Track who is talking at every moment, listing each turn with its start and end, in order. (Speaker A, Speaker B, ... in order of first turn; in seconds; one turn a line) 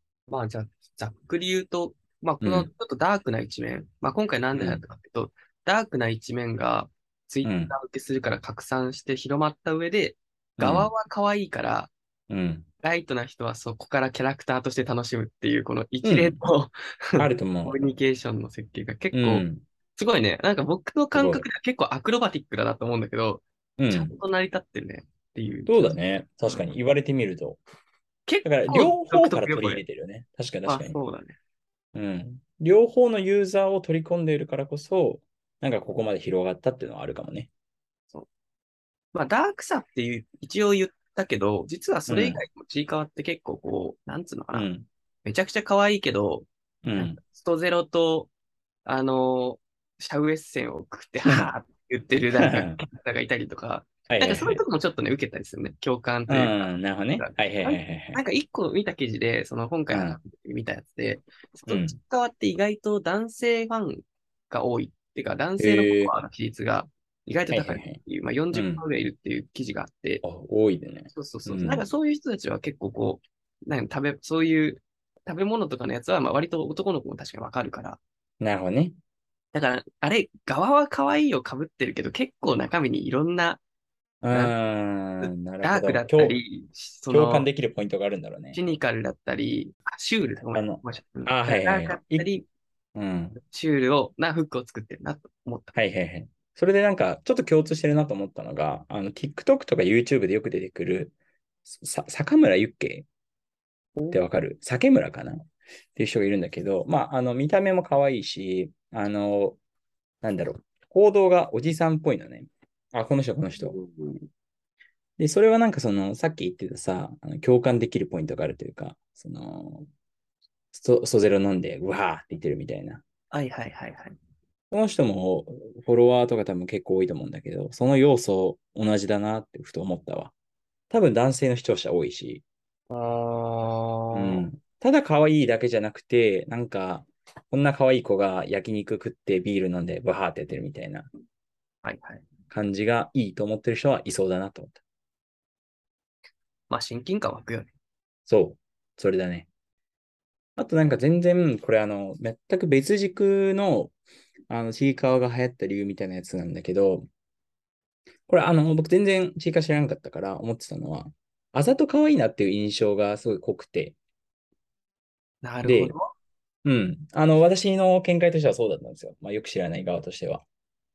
Speaker A: 0.3-11.9
Speaker B: 2.4-2.7
Speaker B: 4.5-4.8
Speaker B: 7.4-7.7
Speaker B: 10.6-10.9
Speaker B: 12.3-12.7
Speaker A: 12.8-26.7
Speaker B: 16.0-16.4
Speaker B: 17.2-17.9
Speaker B: 19.1-19.6
Speaker B: 21.1-21.5
Speaker B: 23.8-24.2
Speaker B: 25.7-27.6
Speaker A: 28.3-29.8
Speaker B: 28.4-31.0
Speaker A: 30.7-31.4
Speaker B: 31.9-37.5
Speaker A: 39.1-44.7
Speaker B: 42.1-42.4
Speaker B: 44.5-44.9
Speaker A: 45.2-48.3
Speaker B: 46.8-47.2
Speaker A: 48.9-70.2
Speaker B: 51.2-51.5
Speaker B: 52.4-52.8
Speaker B: 54.1-54.6
Speaker B: 56.3-58.2
Speaker B: 59.9-60.2
Speaker B: 61.7-62.0
Speaker B: 65.6-66.1
Speaker B: 67.5-68.0
Speaker B: 68.5-68.8
Speaker B: 70.2-71.8
Speaker A: 71.1-78.0
Speaker B: 78.4-79.0
Speaker A: 79.5-83.6
Speaker B: 84.2-86.4
Speaker A: 85.2-87.5
Speaker B: 87.1-88.6
Speaker A: 88.5-92.5
Speaker B: 90.5-92.3
Speaker B: 93.0-93.4
Speaker A: 93.4-95.7
Speaker B: 95.7-103.1
Speaker A: 104.0-104.2
Speaker B: 104.1-109.6
Speaker B: 110.2-113.8
Speaker A: 113.7-114.1
Speaker B: 115.2-119.9
Speaker B: 120.7-123.0
Speaker A: 123.3-124.2
Speaker B: 124.7-130.3
Speaker B: 130.9-132.4
Speaker A: 132.9-134.5
Speaker B: 134.1-141.1
Speaker A: 141.8-142.2
Speaker B: 142.5-144.8
Speaker A: 146.7-147.7
Speaker B: 148.3-149.5
Speaker B: 150.6-153.9
Speaker B: 154.5-157.1
Speaker B: 158.3-164.0
Speaker A: 165.4-166.1
Speaker B: 165.6-166.0
Speaker B: 166.6-170.5